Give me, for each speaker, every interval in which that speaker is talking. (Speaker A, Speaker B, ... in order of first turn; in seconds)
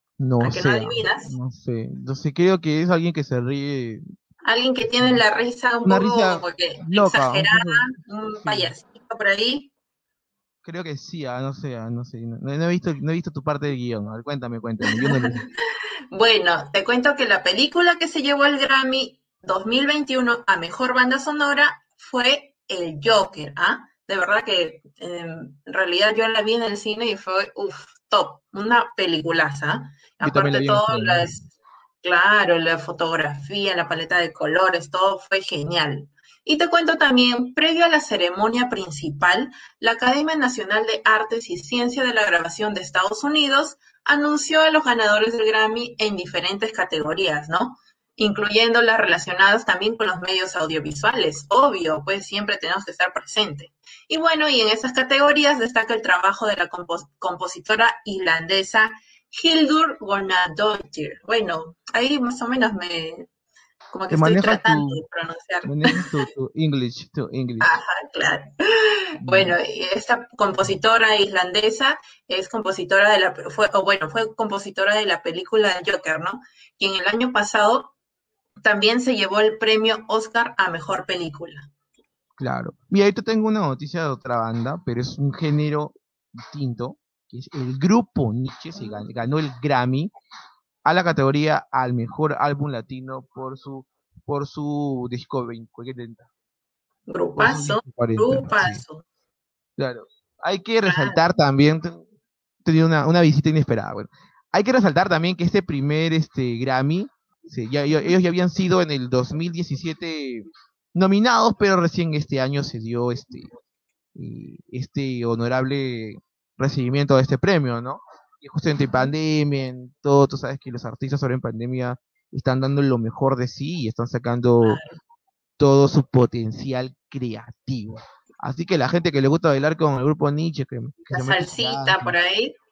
Speaker A: 0.2-4.0, 5.8-7.9, 8.4-8.7, 10.6-15.5, 30.2-31.3, 64.1-65.0, 65.6-67.8, 69.2-69.6, 82.4-90.1, 90.8-96.3, 97.4-98.8, 99.8-102.0, 102.6-113.5, 114.1-124.8, 125.6-132.2
Speaker B: 0.4-1.3, 4.4-9.7, 14.9-15.4, 16.1-31.5, 32.0-63.3, 63.9-66.2, 67.6-77.9, 78.6-81.7, 97.1-99.0, 100.9-101.2, 118.8-119.1, 124.6-125.0, 131.1-132.6